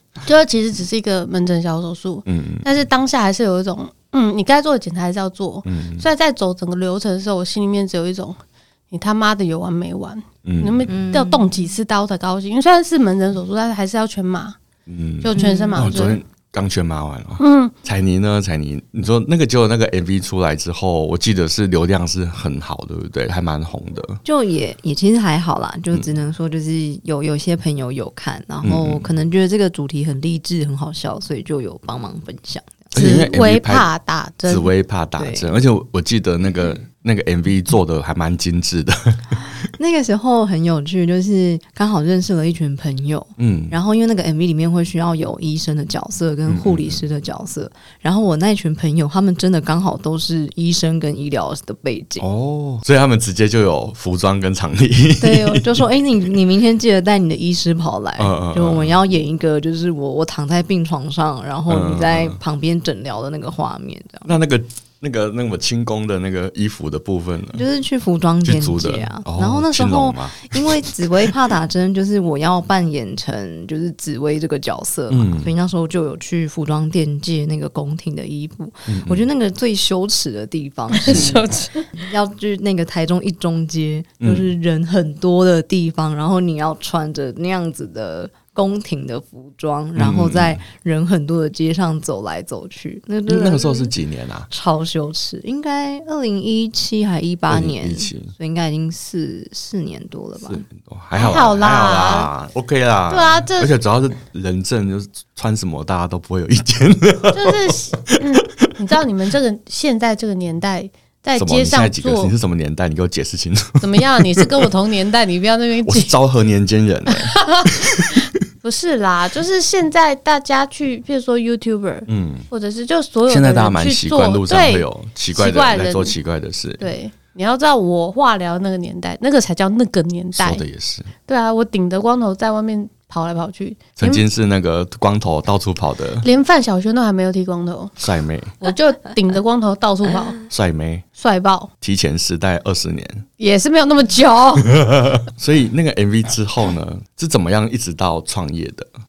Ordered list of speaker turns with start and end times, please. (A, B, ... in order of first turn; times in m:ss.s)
0:00.2-0:14.6 A
0:02.3-0:02.7 B
0:05.6-0:06.0 B
0:10.4-0:10.9 B
0:10.9-0:11.5 C
0:14.9-0:24.2 B
0:15.2-0:16.2 A
0:15.3-0:16.2 C
0:17.4-0:17.7 A
0:24.2-0:33.3 C
0:28.6-0:29.1 B
0:32.9-0:33.9 B
0:33.0-0:34.7 A
0:34.5-0:39.6 B
0:35.2-0:35.5 C
0:39.8-0:52.2 C
0:43.4-0:43.8 B
0:46.5-0:47.0 B
0:52.2-0:55.8 B
0:55.2-1:04.3 C
0:58.2-0:59.0 B
1:01.7-1:02.4 B
1:04.3-1:07.6 B
1:07.5-1:33.9 C
1:08.4-1:10.9 B
1:15.1-1:15.5 B
1:18.9-1:19.3 B
1:20.9-1:21.9 A
1:21.1-1:21.4 B
1:24.2-1:24.5 B
1:30.0-1:30.6 B
1:33.3-1:34.5 B
1:34.5-1:40.6 C
1:37.5-1:38.3 B
1:40.4-1:48.2 B
1:41.2-1:42.3 A
1:43.1-1:43.7 A
1:47.3-1:52.3 A
1:51.4-1:54.5 B
1:53.8-1:56.1 A
1:55.8-1:57.4 B
1:57.1-2:06.2 A
2:02.1-2:02.5 B
2:03.3-2:06.8 B
2:06.8-2:10.6 A
2:10.4-2:11.1 B
2:11.3-2:14.2 A
2:14.0-2:16.3 B
2:16.2-2:18.0 A
2:18.0-2:18.6 B
2:18.6-2:20.4 A
2:20.5-2:21.0 B
2:21.2-2:21.7 A
2:21.8-2:23.2 B
2:23.4-2:24.7 A
2:24.8-2:28.9 B